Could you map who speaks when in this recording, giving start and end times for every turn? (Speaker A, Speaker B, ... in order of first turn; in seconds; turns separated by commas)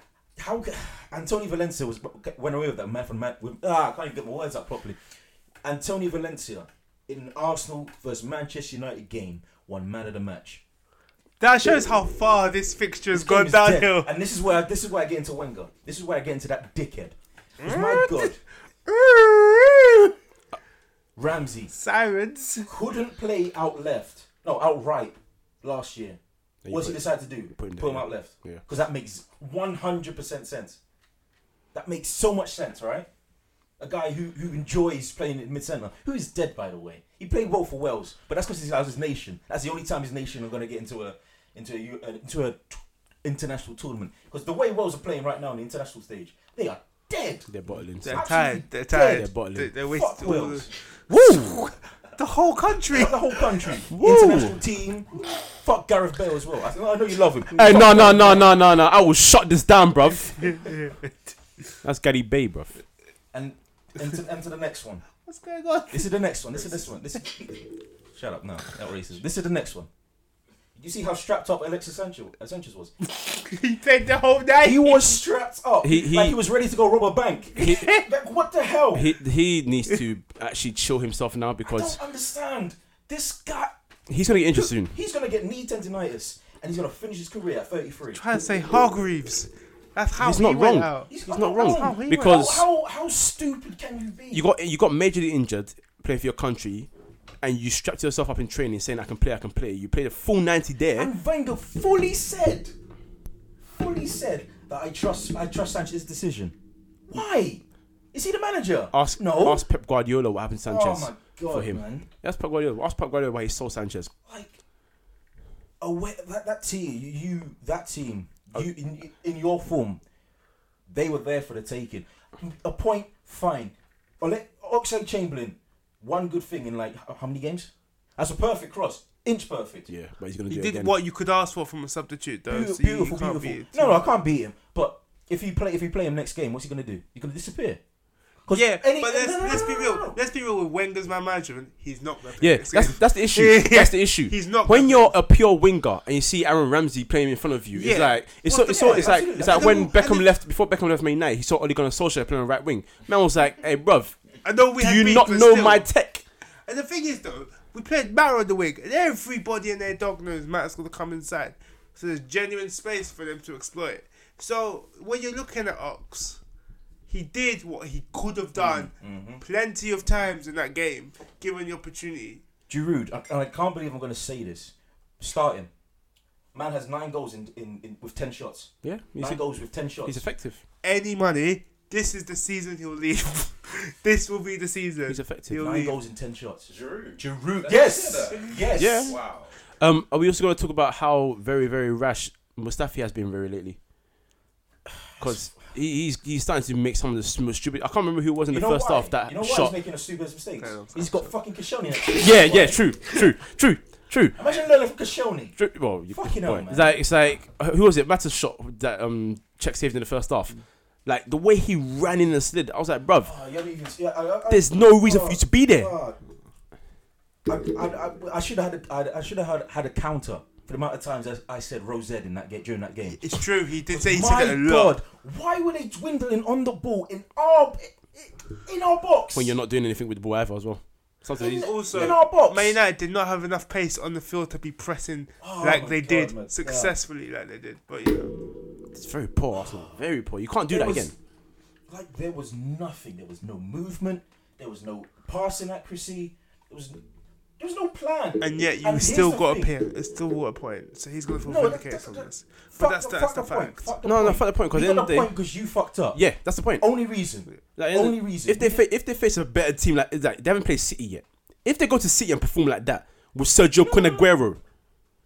Speaker A: 0.3-5.0, Speaker A: 5.6-10.6, Speaker B: 11.4-14.1, Speaker A: 13.1-18.4, Speaker B: 17.6-20.1, Speaker A: 21.1-21.7, Speaker B: 21.7-22.7, Speaker A: 22.6-30.8, Speaker C: 26.6-28.6, Speaker A: 31.7-33.1, Speaker A: 33.8-47.5, Speaker C: 47.5-48.2, Speaker B: 48.0-53.8, Speaker A: 48.0-50.8, Speaker C: 49.0-49.7, Speaker C: 51.1-51.6, Speaker A: 52.9-58.5, Speaker C: 53.9-54.6, Speaker C: 57.5-60.4, Speaker B: 57.6-58.4, Speaker B: 60.2-61.3, Speaker C: 61.8-62.7, Speaker A: 63.3-65.0, Speaker B: 65.2-66.1, Speaker A: 65.9-69.9, Speaker A: 70.8-72.9, Speaker B: 73.1-75.2, Speaker A: 74.6-79.1, Speaker C: 75.8-76.4, Speaker B: 77.6-78.0, Speaker C: 78.9-82.0, Speaker A: 81.7-83.7, Speaker C: 84.1-84.9, Speaker A: 84.6-88.2, Speaker B: 88.1-92.4, Speaker C: 90.2-92.6, Speaker A: 91.1-94.4, Speaker C: 94.3-96.9, Speaker C: 97.4-101.1, Speaker A: 101.0-102.7, Speaker A: 103.7-106.5, Speaker A: 107.1-109.6, Speaker C: 108.9-114.1, Speaker A: 110.7-112.1, Speaker A: 114.3-114.6, Speaker A: 115.8-120.0, Speaker A: 120.9-129.9, Speaker C: 129.9-130.9, Speaker B: 130.5-134.0, Speaker A: 132.5-137.8, Speaker A: 138.4-140.2, Speaker B: 138.5-145.1, Speaker C: 142.4-156.2, Speaker B: 147.7-150.3, Speaker A: 148.7-149.9, Speaker B: 154.4-155.8, Speaker B: 156.7-166.4, Speaker B: 167.1-172.4, Speaker A: 168.5-169.4, Speaker A: 172.7-175.7, Speaker A: 176.5-180.2, Speaker C: 178.8-180.6, Speaker B: 180.8-185.9, Speaker C: 185.1-185.6, Speaker A: 185.5-189.2, Speaker D: 186.7-189.5, Speaker C: 188.7-189.2, Speaker C: 189.8-193.8, Speaker A: 195.1-195.5, Speaker C: 195.2-199.7, Speaker A: 198.5-202.8, Speaker B: 200.6-201.3, Speaker C: 202.1-204.4, Speaker A: 204.3-207.0, Speaker C: 205.6-213.3, Speaker A: 213.2-216.2, Speaker C: 214.5-215.9, Speaker A: 217.4-223.2, Speaker B: 223.1-224.9, Speaker A: 223.9-229.5, Speaker C: 229.3-232.1, Speaker A: 231.4-232.8, Speaker B: 231.4-238.3, Speaker A: 235.4-236.9, Speaker C: 238.9-241.1, Speaker A: 239.6-239.9, Speaker A: 240.7-241.1, Speaker A: 241.9-247.0, Speaker A: 247.6-249.7, Speaker B: 248.4-253.9, Speaker A: 251.4-256.2, Speaker C: 254.0-255.3, Speaker C: 256.1-256.8, Speaker A: 256.8-258.8, Speaker C: 257.8-264.6, Speaker A: 263.8-264.3